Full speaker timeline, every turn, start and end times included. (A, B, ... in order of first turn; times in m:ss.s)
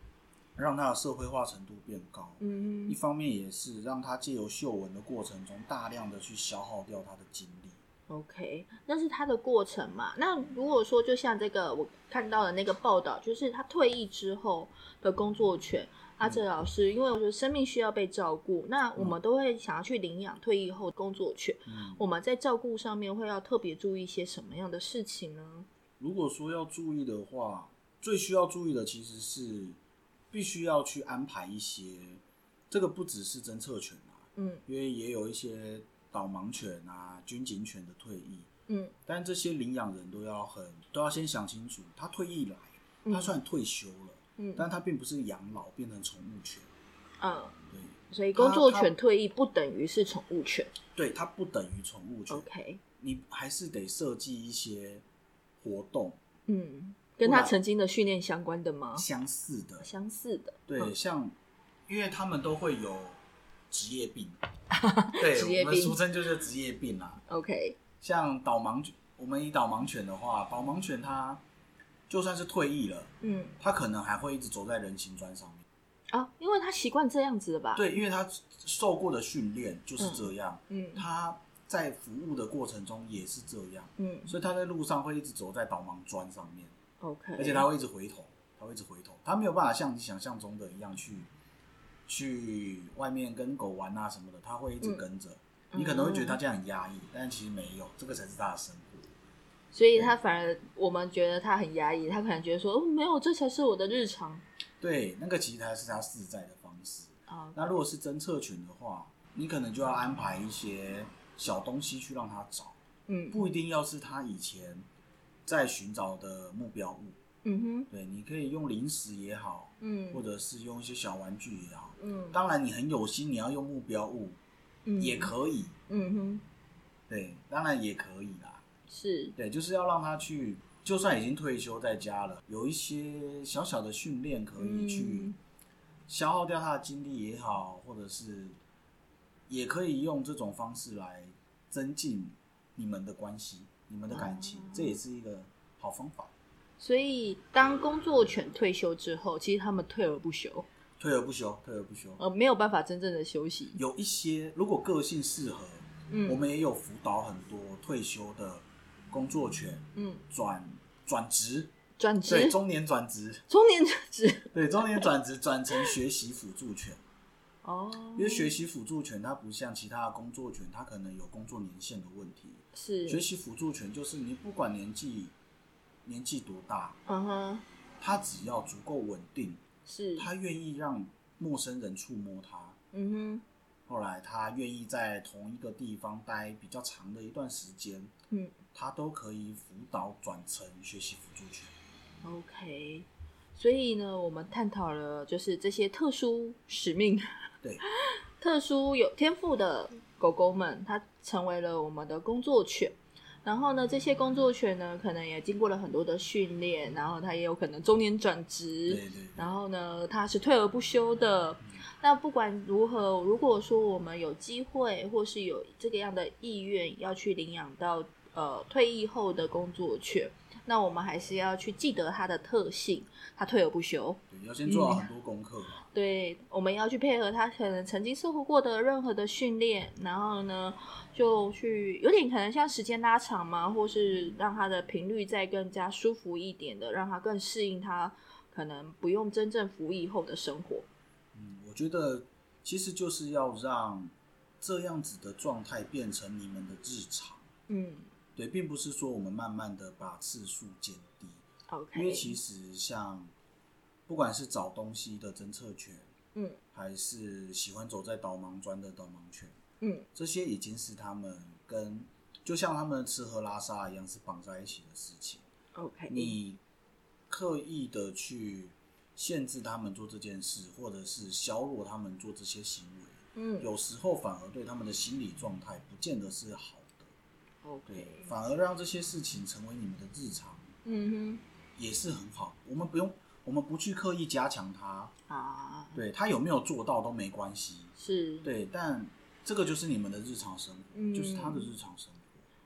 0:00.6-0:07.8 A
0:02.4-0:03.0 B
0:08.1-0:25.7 B
0:21.7-0:22.0 A
0:26.0-0:29.8 A
0:30.3-0:38.5 A
0:34.4-0:34.6 B
0:38.7-0:39.0 B
0:39.1-0:46.7 A
0:43.0-0:43.4 B
0:44.4-0:44.6 B
0:47.2-0:47.6 B
0:47.7-0:48.9 A
0:48.1-0:50.7 B
0:51.0-0:52.5 A
0:52.3-0:52.8 B
0:53.0-0:55.0 A
0:55.6-0:56.2 A
0:56.5-0:59.1 B
0:57.2-0:57.6 A
0:59.0-0:59.9 A
0:59.8-1:00.9 B
1:00.7-1:01.4 A
1:01.9-1:04.4 A
1:04.7-1:06.0 B
1:05.2-1:07.2 A
1:07.3-1:07.8 B
1:08.0-1:11.4 A
1:12.1-1:15.6 A
1:13.2-1:13.6 B
1:16.1-1:17.9 B
1:17.8-1:26.7 A
1:20.0-1:21.0 B
1:24.0-1:24.3 B
1:27.0-1:27.7 B
1:27.4-1:31.3 A
1:32.1-1:39.1 A
1:35.7-1:36.4 B
1:39.7-1:44.4 B
1:44.8-1:52.8 A
1:47.3-1:47.8 B
1:53.1-1:53.4 B
1:53.3-1:54.9 A
1:55.4-1:57.2 A
1:57.4-1:57.9 B
1:57.9-2:04.4 A
1:59.8-2:00.2 B
2:02.0-2:02.4 B
2:04.9-2:05.3 B
2:05.0-2:05.8 A
2:05.9-2:06.4 B
2:07.1-2:08.6 A
2:08.9-2:09.4 B
2:09.4-2:15.3 A
2:14.6-2:15.4 B
2:16.1-2:18.6 A
2:19.5-2:26.3 A
2:24.1-2:25.0 B
2:26.8-2:30.7 B
2:31.0-2:32.2 A
2:32.2-2:33.8 B
2:33.8-2:41.7 A
2:36.1-2:36.4 B
2:40.0-2:40.2 B
2:42.0-2:42.6 B
2:42.3-2:43.4 A
2:43.5-2:45.1 B
2:44.5-2:47.0 A
2:47.6-2:48.6 B
2:48.2-2:55.3 A
2:52.8-2:53.2 B
2:56.0-2:57.0 A
2:57.1-2:57.6 B
2:58.0-2:59.6 A
2:59.9-3:00.3 B
3:00.2-3:02.8 A
3:02.9-3:03.4 B
3:03.9-3:08.1 A
3:08.3-3:08.6 B
3:08.7-3:11.7 A
3:12.2-3:45.1 B
3:28.9-3:29.5 A
3:44.3-3:45.8 A
3:45.8-4:00.9 B
4:01.4-4:07.5 A
4:07.7-4:08.1 B
4:08.4-4:11.4 A
4:11.7-4:12.4 B
4:11.9-4:13.3 A
4:14.1-4:16.1 A
4:16.4-4:16.6 B
4:16.7-4:19.6 A
4:19.8-4:20.1 B
4:20.2-4:25.4 A
4:25.8-4:26.4 B
4:26.1-4:26.6 A
4:27.3-4:37.1 A
4:33.4-4:33.7 B
4:37.6-4:38.3 B
4:37.9-4:40.7 A
4:40.8-4:41.4 B
4:41.8-4:45.1 A
4:45.3-4:46.0 B
4:45.9-4:52.5 A
4:48.0-4:48.5 B
4:50.9-4:51.7 B